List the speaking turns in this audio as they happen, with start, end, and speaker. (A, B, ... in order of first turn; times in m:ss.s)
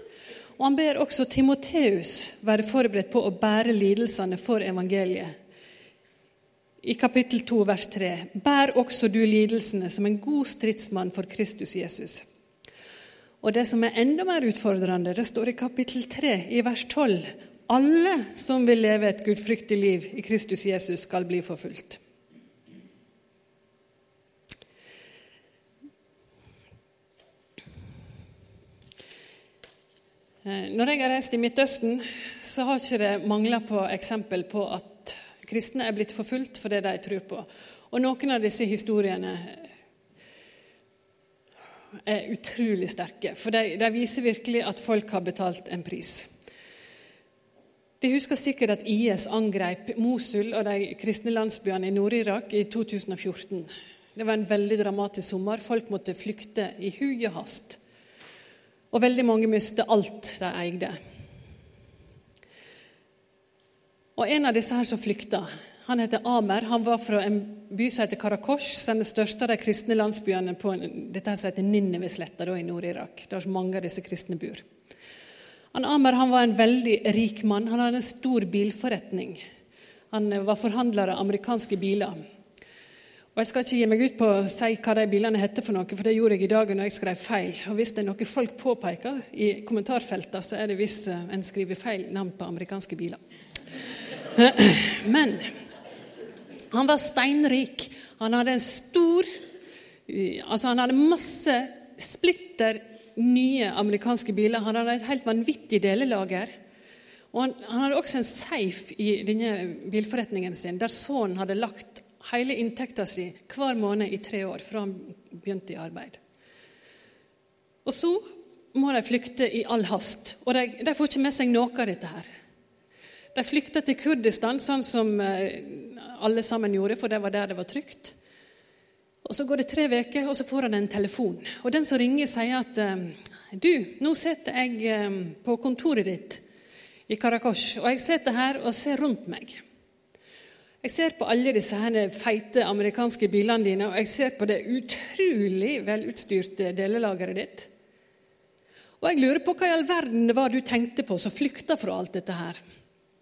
0:00.6-0:05.3 A
0:06.8-0:12.3 A
0:13.4-0:22.0 A
0:30.4-0:39.7 A
0:42.0-0:46.3 A
0:48.0-0:57.8 A
0:58.9-1:01.0 A
1:04.2-1:14.6 A
1:15.7-1:19.4 A
1:20.1-1:22.2 A
1:23.4-1:33.2 A
1:34.3-1:35.5 A
1:36.7-1:39.3 A
1:40.1-1:46.5 A
1:47.3-1:56.2 A
1:57.8-2:02.3 A
2:03.4-2:08.2 A
2:09.2-2:16.4 A
2:17.1-2:19.6 A
2:20.8-2:27.7 A
2:29.0-2:32.6 A